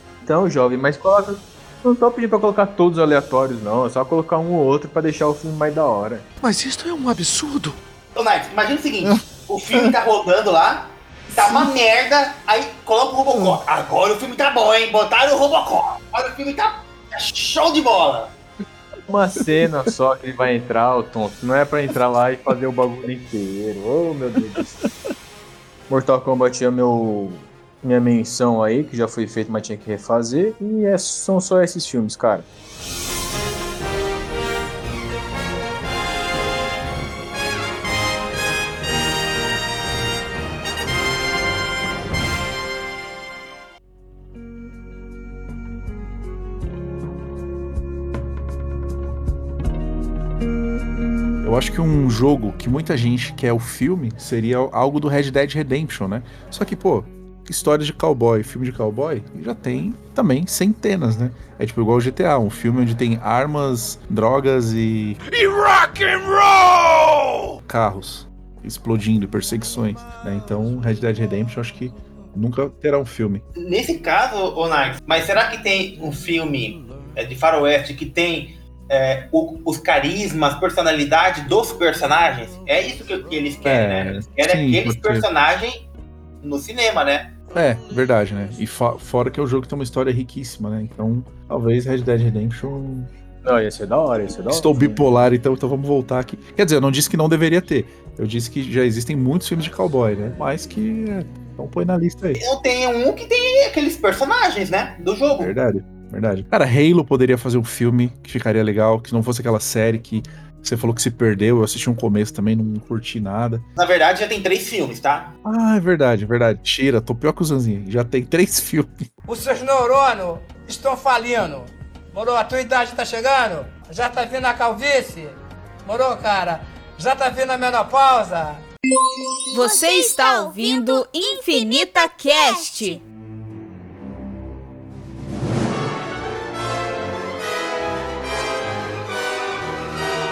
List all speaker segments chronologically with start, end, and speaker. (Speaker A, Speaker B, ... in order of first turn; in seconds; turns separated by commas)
Speaker A: 0.2-6.3, Speaker B: 6.4-7.7, Speaker C: 8.1-18.3, Speaker B: 13.3-13.6, Speaker A: 19.1-24.8, Speaker A: 25.9-32.5, Speaker B: 51.4-65.2, Speaker D: 65.2-67.4, Speaker B: 67.7-73.4, Speaker C: 73.5-85.8, Speaker B: 83.6-85.2, Speaker C: 86.4-87.3, Speaker B: 87.5-93.1, Speaker A: 93.4-95.0, Speaker B: 94.5-102.4, Speaker C: 102.4-105.5, Speaker B: 105.3-113.6, Speaker C: 113.8-115.3, Speaker B: 115.4-119.0, Speaker E: 119.3-128.7, Speaker F: 129.5-133.0